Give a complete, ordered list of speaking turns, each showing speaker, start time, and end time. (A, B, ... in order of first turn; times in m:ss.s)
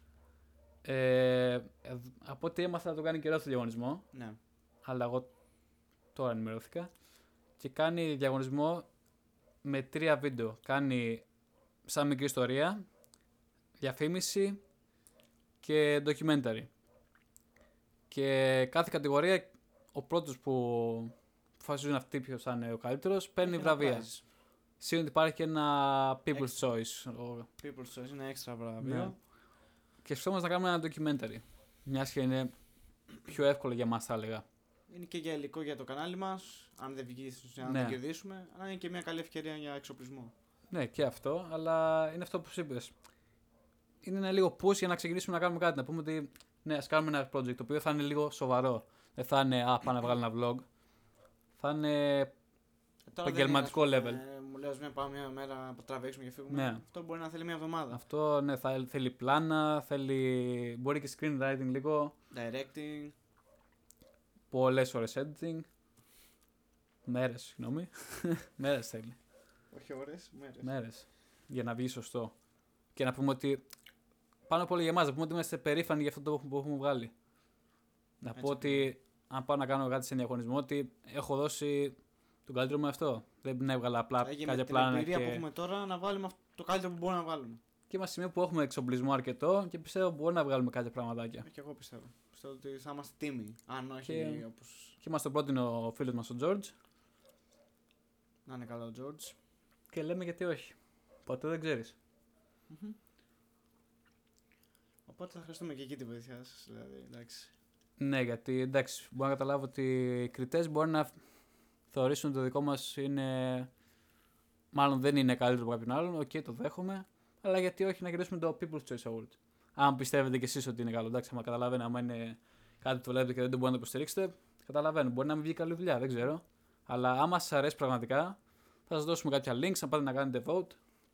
0:00.8-0:13.2 A
0:04.1-0:04.4 B
0:13.8-0:14.8 A
0:15.6-0:16.7 A
0:18.1-0:27.5 A
0:23.4-0:24.2 B
0:26.3-0:27.0 B
0:27.6-0:29.2 B
0:28.8-0:34.4 A
0:34.9-0:40.3 B
0:37.6-0:38.0 A
0:40.7-0:52.7 A
0:53.0-0:58.0 B
0:53.2-0:54.2 A
0:56.5-0:56.8 A
0:57.9-1:02.2 A
1:02.3-1:03.2 B
1:04.5-1:05.7 A
1:07.0-1:09.2 A
1:09.7-1:10.7 B
1:10.6-1:17.6 A
1:18.2-1:25.4 A
1:18.3-1:18.9 B
1:24.2-1:27.6 B
1:27.9-1:31.5 A
1:31.4-1:35.0 B
1:34.0-1:36.8 A
1:38.4-1:39.4 B
1:39.9-1:42.0 A
1:42.7-1:43.0 B
1:45.1-1:47.5 B
1:48.0-1:54.0 A
1:54.7-2:10.8 A